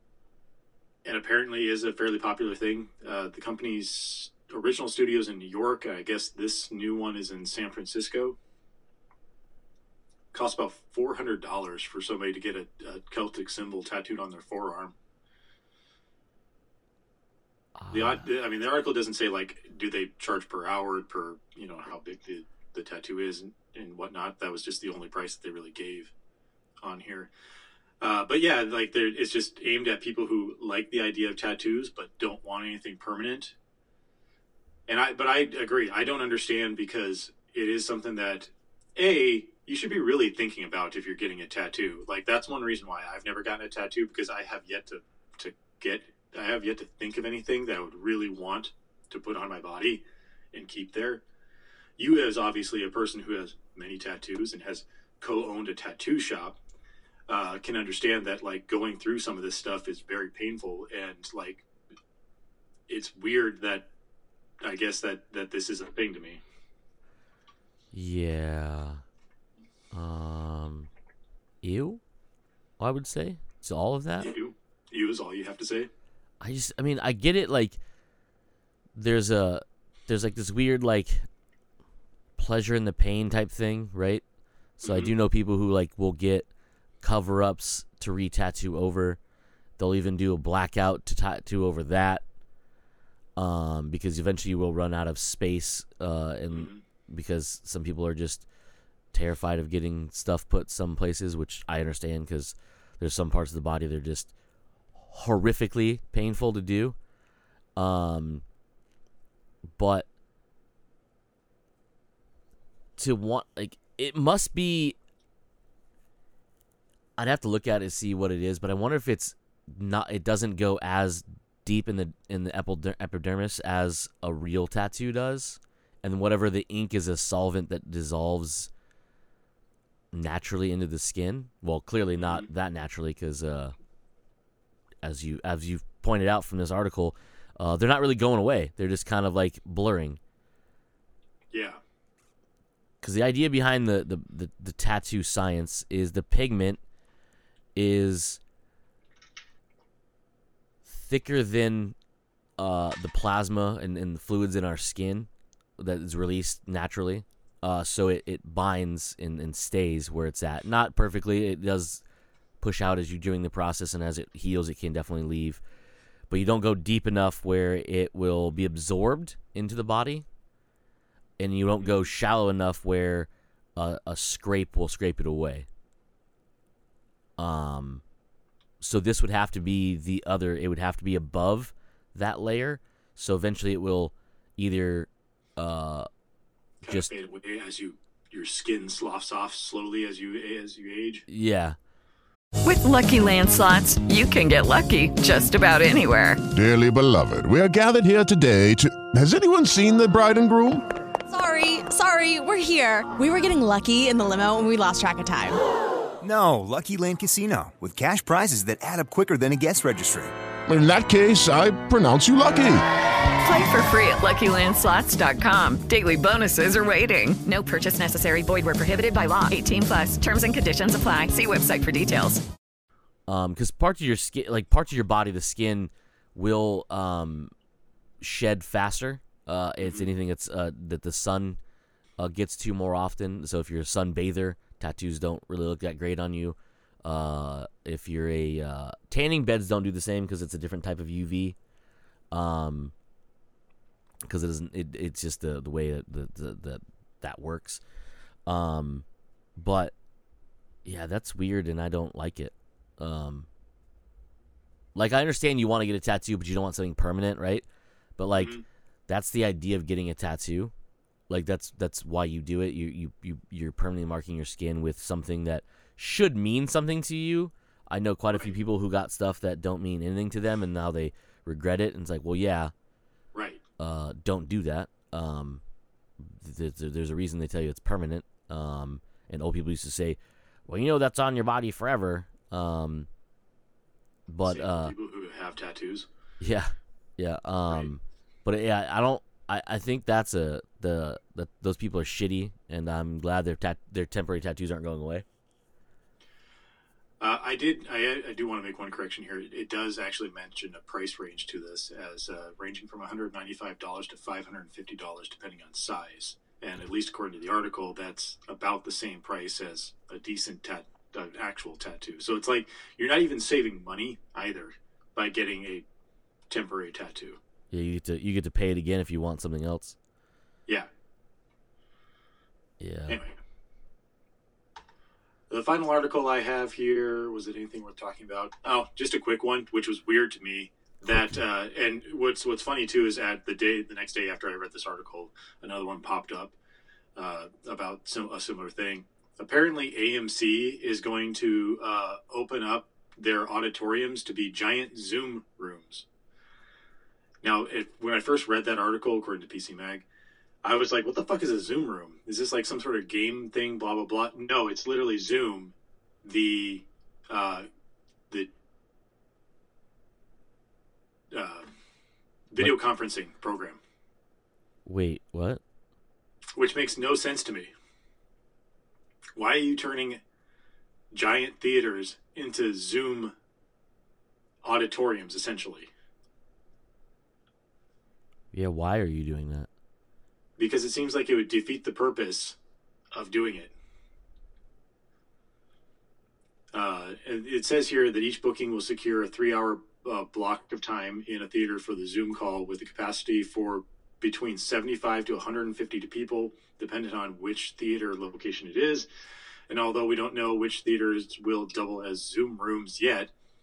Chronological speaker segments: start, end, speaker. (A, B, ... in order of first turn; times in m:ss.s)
0:01.0-0:08.4 A
0:10.3-0:14.9 A
0:17.8-0:18.2 B
0:17.9-0:26.1 A
0:26.8-0:27.3 A
0:28.0-0:33.5 A
0:34.9-0:51.2 A
0:52.0-0:56.6 A
0:57.3-1:01.6 A
1:02.9-1:03.9 A
1:04.6-1:06.4 A
1:07.9-1:09.0 B
1:09.9-1:10.9 B
1:11.6-1:12.0 B
1:12.8-1:14.3 B
1:14.2-1:15.9 A
1:16.4-1:17.8 B
1:19.0-1:21.3 B
1:22.4-1:24.2 B
1:24.8-1:26.5 B
1:24.8-1:25.1 A
1:27.0-1:29.2 B
1:29.8-1:32.2 B
1:33.4-1:38.5 B
1:36.5-1:36.8 A
1:39.1-1:44.3 B
1:45.1-1:47.0 B
1:47.8-1:48.4 B
1:49.8-1:50.1 B
1:53.0-1:55.0 B
1:57.2-2:08.7 B
2:10.1-2:13.8 B
2:12.2-2:12.5 A
2:15.0-2:20.2 B
2:21.5-2:21.8 A
2:23.0-2:26.8 B
2:27.8-2:28.4 B
2:30.8-2:32.0 B
2:32.6-2:42.0 B
2:42.6-2:45.6 B
2:46.3-2:50.3 B
2:51.4-2:55.7 B
2:51.8-2:52.1 A
2:57.4-2:58.0 B
2:58.8-3:06.1 B
3:06.8-3:11.2 A
3:06.8-3:07.1 B
3:11.3-3:11.8 B
3:12.6-3:16.4 C
3:16.5-3:20.8 D
3:21.3-3:25.6 E
3:26.2-3:30.3 F
3:30.7-3:32.8 D
3:33.4-3:42.4 C
3:43.3-3:47.5 B
3:48.2-3:51.6 B
3:49.8-3:50.1 A
3:52.2-4:01.6 B
4:02.3-4:02.9 B
4:04.2-4:07.8 B
4:08.5-4:09.0 B
4:09.6-4:09.9 B
4:10.8-4:13.5 B
4:15.0-4:17.7 B
4:18.2-4:20.7 B
4:18.4-4:18.6 A
4:21.3-4:32.7 B
4:33.3-4:33.6 A
4:33.8-4:35.6 B
4:36.2-4:43.1 B
4:44.3-4:45.0 B
4:44.4-4:46.1 A
4:46.4-4:55.2 B
4:57.2-5:15.8 A
5:16.5-5:17.4 A
5:17.7-5:20.0 B
5:22.8-5:23.2 B
5:23.1-5:23.4 A
5:25.5-5:36.6 A
5:31.0-5:31.3 B
5:37.2-5:46.0 A
5:47.4-5:50.0 A
5:50.6-5:55.7 A
5:56.2-5:57.7 A
6:01.3-6:01.7 A
6:02.5-6:03.8 A
6:04.8-6:05.6 B
6:06.6-6:07.7 A
6:09.4-6:10.2 A
6:11.1-6:13.3 A
6:14.6-6:15.9 A
6:18.5-6:19.7 B
6:20.6-6:22.6 A
6:23.1-6:23.7 A
6:26.7-6:39.1 A
6:39.7-6:43.3 A